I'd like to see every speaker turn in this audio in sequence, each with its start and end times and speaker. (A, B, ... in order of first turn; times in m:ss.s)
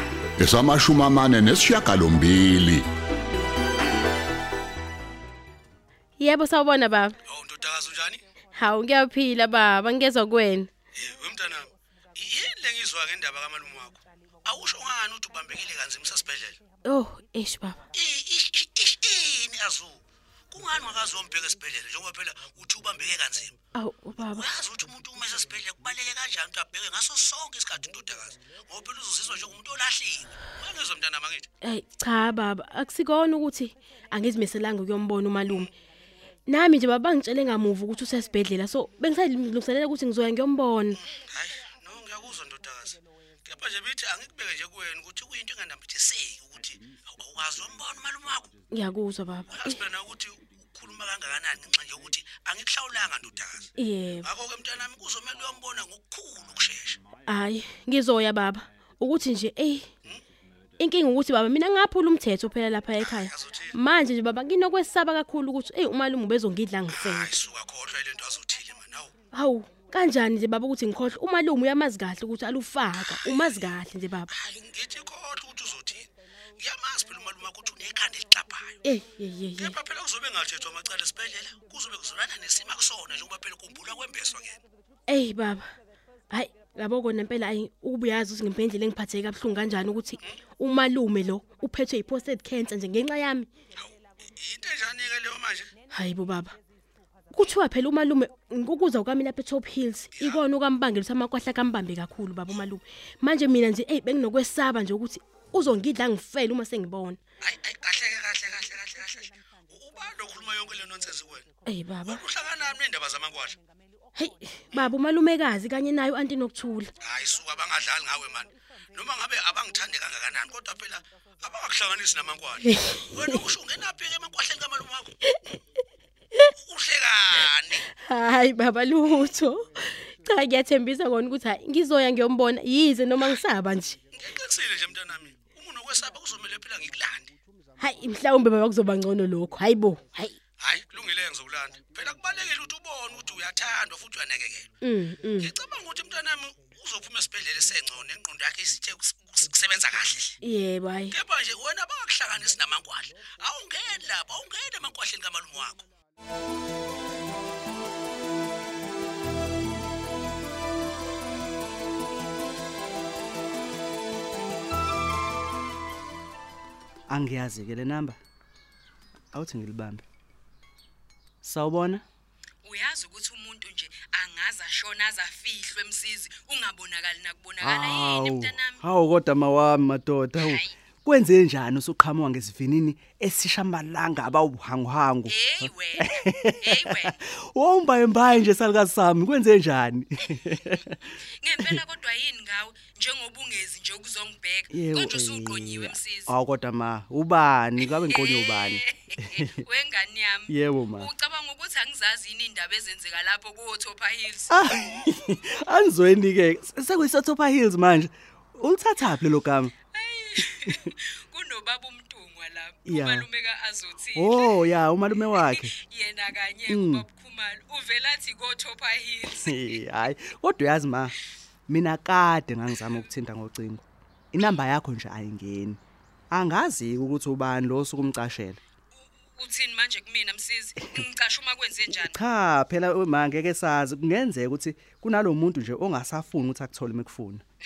0:00.4-0:02.8 A
0:06.2-0:07.2 B
0:07.2-0:08.2 C
0:08.5-0:10.7 B
0:11.0-0:16.6 C
0:16.8-0:17.8 B
0:17.9-0:20.0 C
0:20.5-0:23.6 C
0:23.7-0:24.6 B
0:24.2-0:31.4 C
0:31.6-0:35.7 B
0:36.5-0:41.0 B
0:41.0-0:48.5 C
0:48.7-0:49.8 B
0:49.5-0:53.7 C
0:53.8-0:54.3 B
0:54.2-0:57.0 C
0:57.2-0:59.9 B
1:00.8-1:07.4 B
1:03.0-1:03.7 C
1:06.9-1:09.1 C
1:09.3-1:14.3 B
1:13.1-1:13.6 C
1:14.3-1:18.8 C
1:18.8-1:19.8 B
1:19.6-1:24.6 C
1:25.1-1:25.7 B
1:26.3-1:33.5 B
1:34.4-1:35.7 C
1:35.9-1:36.6 B
1:37.3-1:47.2 B
1:40.2-1:40.4 C
1:47.4-1:51.4 C
1:51.6-1:52.2 B
1:52.0-1:53.6 C
1:54.2-1:56.9 B
1:57.0-2:05.1 C
2:02.6-2:03.4 B
2:06.5-2:07.8 C
2:07.9-2:14.0 B
2:14.2-2:17.3 C
2:17.8-2:20.4 B
2:20.6-2:24.7 C
2:24.8-2:25.5 B
2:25.4-2:30.4 C
2:30.4-2:31.2 B
2:31.1-2:35.9 C
2:47.1-2:48.2 D
2:49.3-2:50.0 D
2:51.4-2:52.0 D
2:52.6-2:58.8 E
2:57.6-3:11.0 D
3:00.4-3:00.7 E
3:05.2-3:07.2 E
3:10.3-3:16.3 E
3:14.7-3:19.6 D
3:17.8-3:24.6 E
3:20.5-3:21.1 D
3:24.5-3:29.7 D
3:29.9-3:39.8 E
3:32.8-3:33.3 D
3:34.1-3:35.7 D
3:36.7-3:37.0 D
3:39.3-3:41.1 D
3:41.7-3:45.8 D
3:46.3-3:48.6 D
3:48.9-3:52.2 E
3:51.9-3:57.4 D